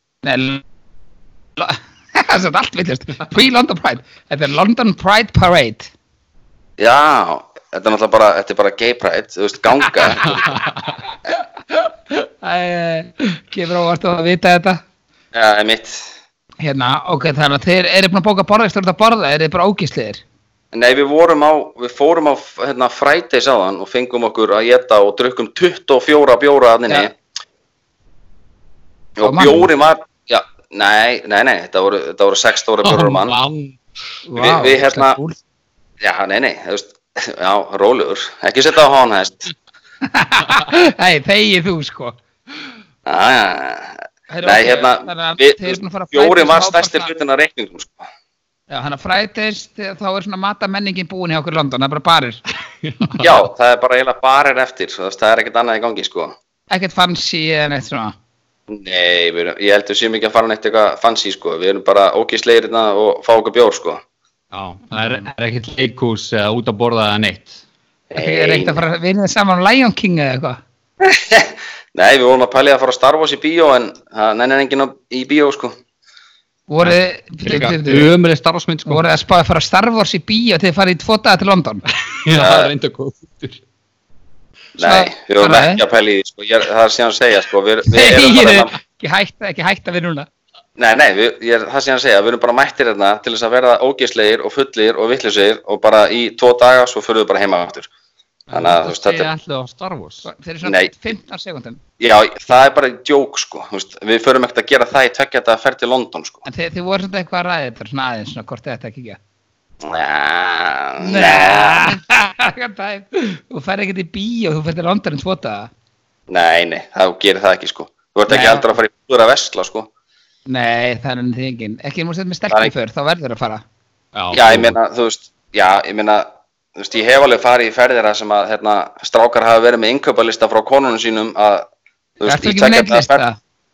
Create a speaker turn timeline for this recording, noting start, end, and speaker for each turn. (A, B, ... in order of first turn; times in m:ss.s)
0:00.2-0:00.6 A
0:01.6-0:05.9 A
0:06.8-0:10.5 B
0:10.3-0:10.8 C
0:11.3-0:14.8 A
0:15.3-0:16.1 B
0:16.6-0:20.2 A
0:20.7-0:27.1 B
0:29.2-0:33.4 B
0:29.2-0:29.7 A
0:32.8-0:33.8 C
0:34.2-0:35.4 A
0:34.3-0:35.2 B
0:36.0-0:39.5 B
0:40.0-0:42.2 A
0:43.0-0:48.0 B
0:44.3-0:47.1 A
0:48.7-0:52.4 A
0:52.8-0:53.4 C
0:53.2-0:56.4 B
0:56.7-0:58.1 A
0:58.7-1:04.0 B
1:04.5-1:07.6 C
1:08.1-1:08.8 B
1:08.2-1:10.6 A
1:11.0-1:15.8 B
1:16.7-1:18.1 A
1:16.8-1:19.0 C
1:18.8-1:21.8 A
1:21.9-1:23.6 C
1:22.3-1:22.7 B
1:24.8-1:28.7 B
1:24.8-1:25.8 A
1:27.9-1:30.3 A
1:30.8-1:37.9 B
1:38.5-1:40.3 C
1:38.5-1:39.3 B
1:40.2-1:41.8 A
1:40.6-1:40.9 B
1:42.0-1:46.4 B
1:46.4-1:49.2 A
1:49.8-1:51.9 B
1:51.0-1:55.7 A
1:56.3-1:59.9 B
1:58.3-1:58.7 A
2:00.4-2:03.6 A
2:04.1-2:04.8 C
2:04.3-2:11.7 B
2:12.2-2:13.2 B
2:12.3-2:13.4 A